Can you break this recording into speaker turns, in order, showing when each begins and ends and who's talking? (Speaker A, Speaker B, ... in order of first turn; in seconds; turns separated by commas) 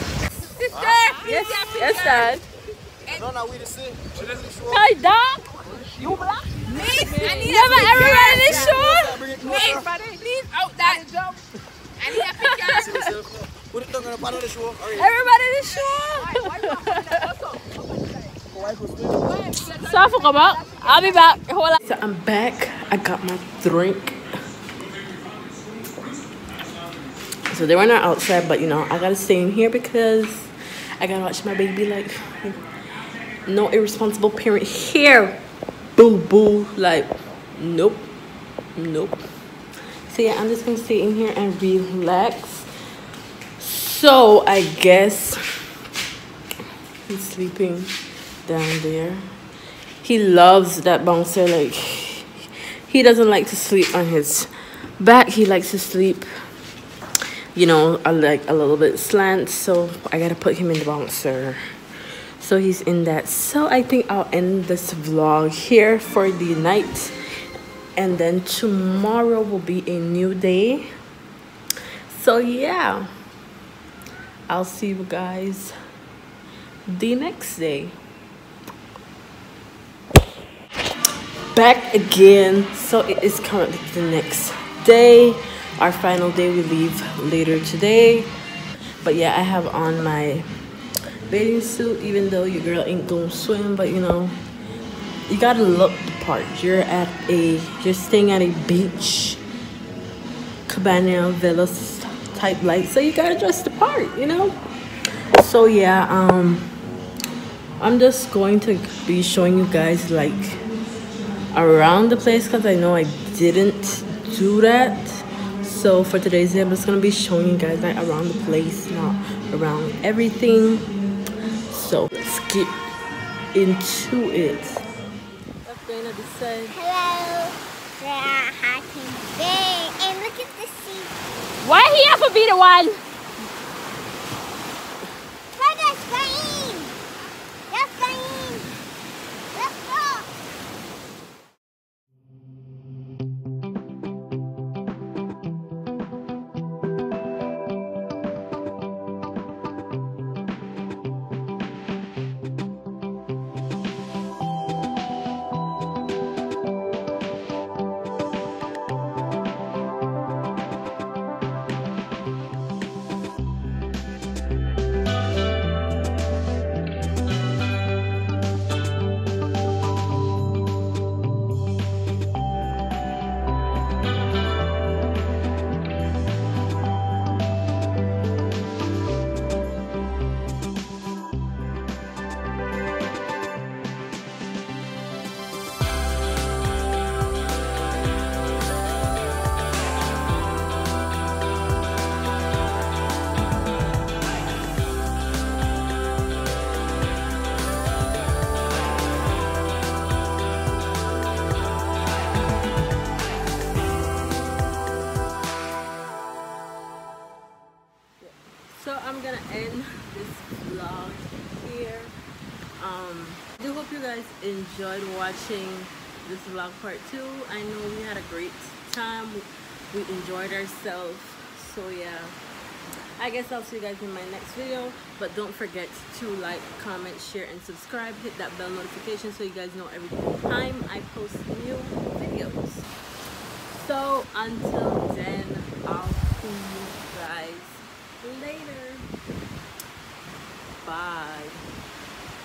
Speaker A: 0.4-2.2, Speaker B: 1.2-2.5, Speaker C: 3.1-4.8, Speaker B: 4.6-6.3, Speaker A: 6.6-11.4, Speaker B: 7.0-9.3, Speaker C: 8.6-9.8, Speaker A: 12.0-13.1, Speaker B: 12.1-13.1, Speaker C: 12.9-15.0, Speaker B: 14.8-17.3, Speaker A: 16.3-18.4, Speaker C: 18.5-19.2, Speaker A: 19.3-20.0, Speaker B: 19.7-24.2, Speaker A: 20.6-20.9, Speaker B: 27.5-32.6, Speaker B: 33.4-35.4, Speaker B: 35.9-38.1, Speaker B: 38.7-39.2, Speaker B: 40.1-42.7, Speaker B: 43.6-45.4, Speaker B: 47.1-49.2, Speaker B: 50.0-56.2, Speaker B: 57.5-61.6, Speaker B: 62.4-67.1, Speaker B: 67.9-70.9, Speaker B: 72.1-73.1, Speaker B: 74.5-75.7, Speaker B: 76.9-78.0, Speaker B: 81.5-88.3, Speaker B: 89.0-90.5, Speaker B: 91.3-94.4, Speaker B: 95.3-99.4, Speaker B: 100.7-104.6, Speaker B: 105.3-106.7, Speaker B: 107.8-110.6, Speaker B: 111.5-120.9, Speaker B: 121.7-122.8, Speaker B: 123.5-124.8, Speaker B: 125.6-126.8, Speaker D: 126.8-131.1, Speaker B: 131.6-133.0, Speaker D: 135.6-136.9, Speaker D: 137.7-138.7, Speaker D: 139.5-140.3, Speaker B: 208.2-212.1, Speaker B: 212.8-222.3, Speaker B: 223.2-232.9, Speaker B: 233.7-239.1, Speaker B: 240.8-241.6